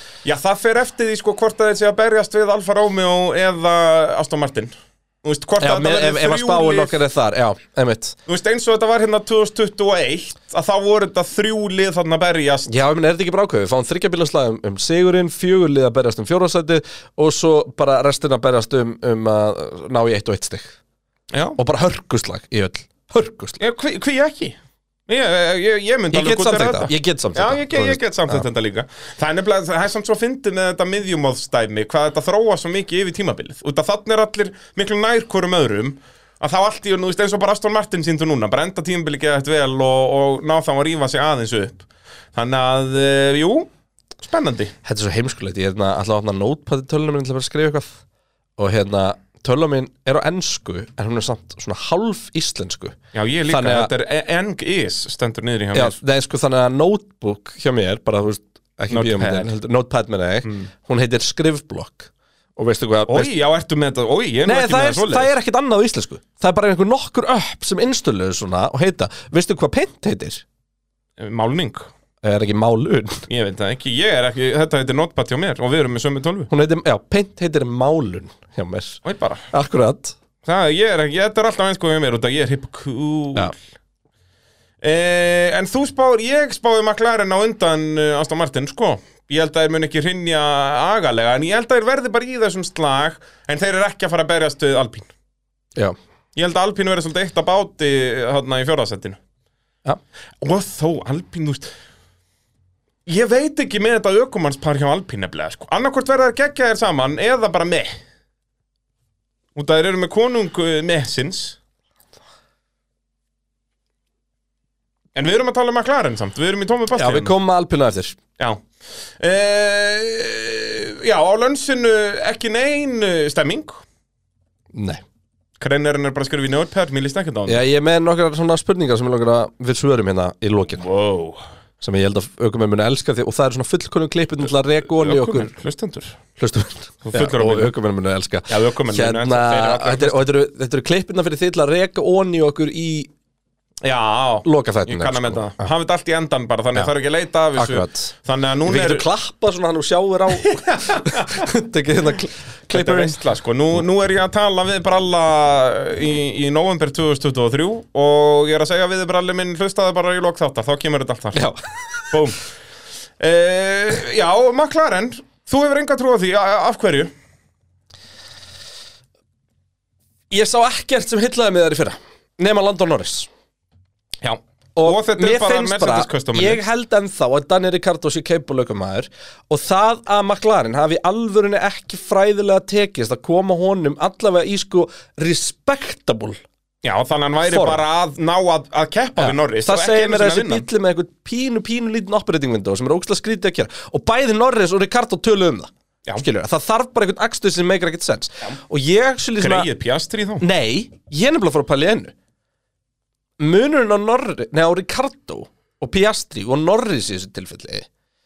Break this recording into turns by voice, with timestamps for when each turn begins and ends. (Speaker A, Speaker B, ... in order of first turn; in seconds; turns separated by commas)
Speaker A: 0.2-7.0, Speaker B: 5.6-8.2, Speaker A: 8.3-12.7, Speaker B: 12.7-20.8, Speaker A: 21.3-21.6, Speaker B: 21.6-23.6, Speaker A: 23.6-43.7, Speaker B: 26.1-28.4, Speaker A: 44.2-44.7, Speaker B: 44.8-47.9, Speaker B: 48.6-53.0, Speaker A: 53.1-56.0, Speaker B: 53.5-53.9, Speaker B: 55.7-63.3, Speaker A: 58.9-59.5, Speaker A: 63.1-65.3, Speaker B: 64.5-70.4, Speaker A: 71.2-71.9, Speaker B: 72.2-73.2, Speaker A: 73.3-76.5, Speaker B: 76.5-79.0, Speaker A: 79.0-79.5, Speaker B: 79.5-80.2, Speaker A: 80.4-83.5, Speaker A: 84.8-95.1, Speaker A: 96.4-99.2, Speaker A: 100.4-101.7, Speaker A: 103.1-107.9, Speaker A: 109.5-111.6, Speaker A: 115.2-117.3, Speaker B: 116.9-118.2, Speaker A: 118.4-118.7, Speaker A: 119.2-123.8, Speaker B: 124.7-125.0, Speaker A: 125.6-127.6, Speaker B: 127.5-130.8, Speaker A: 130.8-131.4, Speaker B: 131.8-135.5, Speaker A: 135.0-136.2, Speaker B: 136.4-143.1, Speaker A: 137.0-137.7, Speaker A: 138.5-140.2, Speaker A: 143.8-149.1, Speaker B: 144.4-145.7, Speaker B: 147.6-148.1, Speaker B: 148.7-153.2, Speaker A: 150.3-151.5, Speaker A: 152.7-161.5, Speaker B: 161.3-162.1, Speaker A: 162.1-162.4, Speaker A: 163.2-167.1, Speaker B: 170.3-173.3, Speaker A: 174.2-176.6, Speaker B: 174.8-186.4, Speaker A: 186.8-190.7, Speaker B: 187.5-187.8, Speaker B: 189.2-199.7, Speaker A: 199.4-200.4, Speaker B: 200.4-202.1, Speaker B: 203.4-207.9